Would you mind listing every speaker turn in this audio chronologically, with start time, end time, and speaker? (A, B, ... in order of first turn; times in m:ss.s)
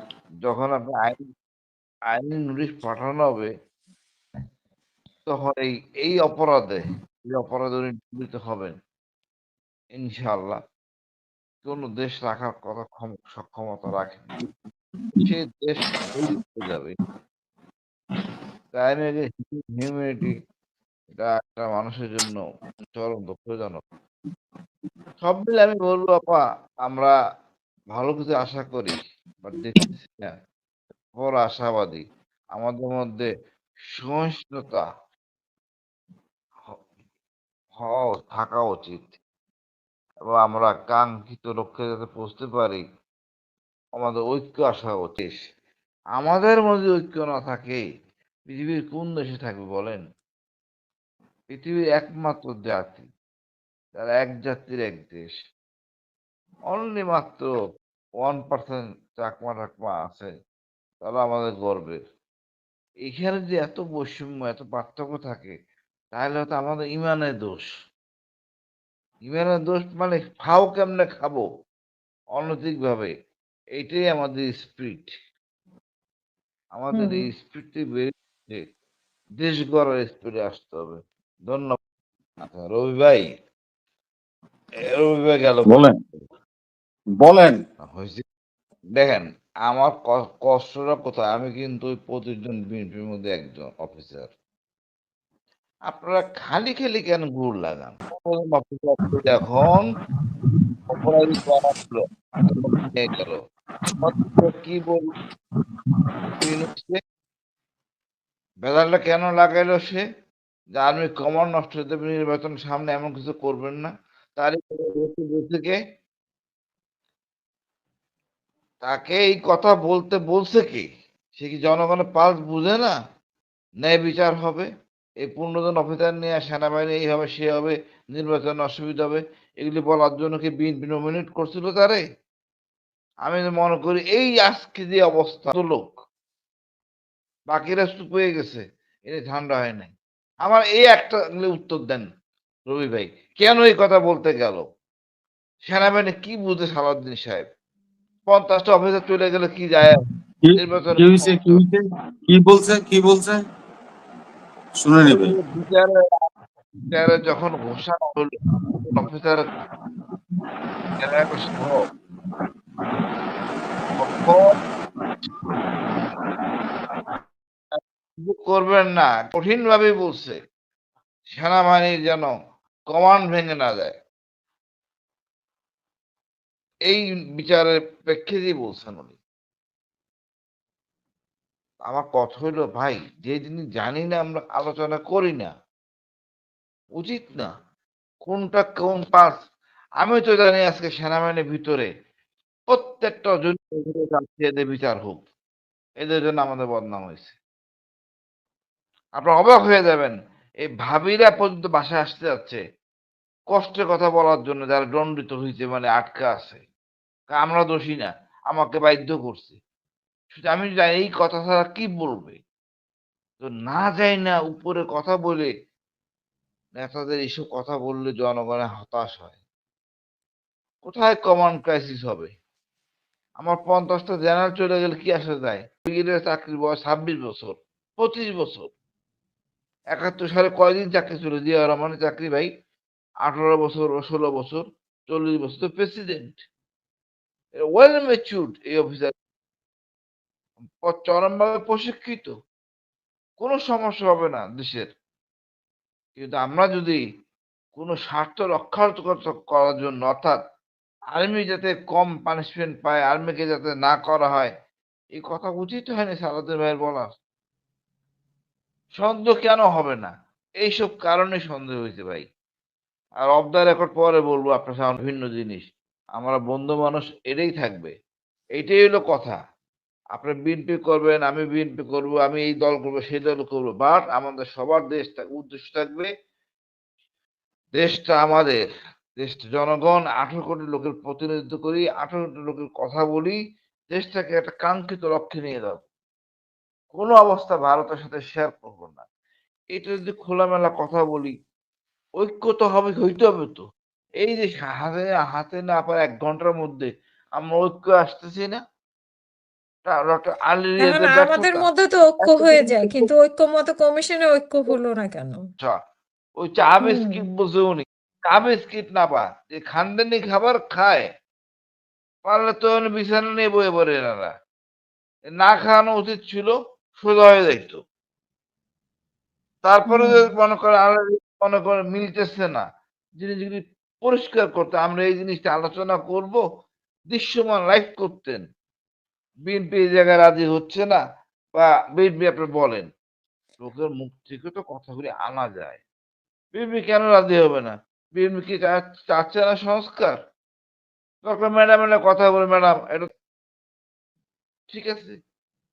0:00.4-0:01.2 A
0:02.1-0:03.5 A
0:05.3-0:08.8 A
0:10.0-0:10.6 A
0:11.6-0:14.3 A
0:15.2-0:16.9 A
0:18.7-0:20.3 A
0:21.2-0:22.4 A
0:22.9-0:23.8 A
0:25.2-0:27.1 A
0:27.9-0:30.3 A
0:31.2-0:32.0 A
0:32.6-0:33.3 A
0:34.0-0:34.8 A
0:37.8-0:39.1 A
0:40.3-0:42.8 A
0:44.0-0:45.4 A
0:46.2-0:47.8 A
0:48.5-0:50.0 A
0:51.5-0:53.0 A
0:54.0-0:55.3 A
0:56.7-0:57.5 A
0:58.2-1:00.3 A
1:01.0-1:02.0 A
1:03.0-1:05.5 A
1:06.1-1:07.7 A
1:09.3-1:11.4 A
1:12.4-1:13.1 A
1:13.8-1:15.1 A
1:16.7-1:18.6 A
1:16.9-1:17.2 B
1:19.4-1:21.8 A
1:22.4-1:23.3 A
1:24.9-1:25.8 A
1:25.6-1:26.0 C
1:27.2-1:27.6 C
1:27.8-1:28.2 A
1:29.0-1:34.3 A
1:35.9-1:39.9 A
1:40.9-1:43.4 A
1:44.0-1:45.1 A
1:46.4-1:47.0 A
1:48.6-1:50.0 A
1:50.8-1:55.8 A
1:58.8-2:00.8 A
2:01.4-2:03.0 A
2:03.8-2:04.7 A
2:05.2-2:12.0 A
2:13.2-2:16.0 A
2:17.5-2:19.9 A
2:20.4-2:22.0 A
2:22.7-2:24.6 A
2:25.7-2:27.4 A
2:28.3-2:30.0 A
2:30.4-2:33.4 C
2:30.5-2:31.6 A
2:34.8-2:35.3 C
2:35.0-2:35.9 A
2:36.9-2:38.3 A
2:38.9-2:39.5 A
2:41.0-2:41.8 A
2:44.0-2:44.5 A
2:48.2-2:50.4 A
2:51.3-2:52.3 A
2:52.9-2:53.9 A
2:56.9-2:59.2 A
3:01.9-3:05.5 A
3:07.0-3:07.5 A
3:08.2-3:09.3 A
3:10.0-3:11.9 A
3:12.7-3:15.2 A
3:16.0-3:17.4 A
3:19.2-3:22.6 A
3:23.5-3:26.6 A
3:27.3-3:29.6 A
3:30.3-3:32.4 A
3:33.4-3:35.5 A
3:36.8-3:39.4 A
3:40.8-3:42.3 A
3:43.4-3:48.7 A
3:49.9-3:52.5 A
3:53.2-3:56.4 A
3:57.6-3:59.1 A
4:00.8-4:02.3 A
4:03.4-4:04.9 A
4:06.2-4:07.0 A
4:07.8-4:10.4 A
4:11.1-4:14.5 A
4:15.2-4:17.1 A
4:19.0-4:20.1 A
4:20.6-4:22.2 A
4:23.2-4:25.7 A
4:26.2-4:27.9 A
4:28.6-4:29.4 A
4:30.1-4:36.1 A
4:37.8-4:38.6 A
4:39.2-4:43.4 A
4:43.9-4:45.8 A
4:46.9-4:49.0 A
4:49.7-4:51.3 A
4:52.2-4:53.6 A
4:54.2-4:58.6 A
4:59.8-5:01.6 A
5:00.8-5:05.4 B
5:02.2-5:03.1 A
5:06.4-5:11.0 A
5:06.8-5:07.2 B
5:12.3-5:14.3 A
5:15.4-5:17.8 A
5:19.6-5:22.6 A
5:19.9-5:20.3 B
5:23.2-5:26.4 A
5:27.1-5:28.4 A
5:29.5-5:31.0 A
5:31.6-5:32.9 A
5:33.6-5:35.8 A
5:36.5-5:40.2 A
5:41.2-5:43.1 A
5:44.7-5:45.2 A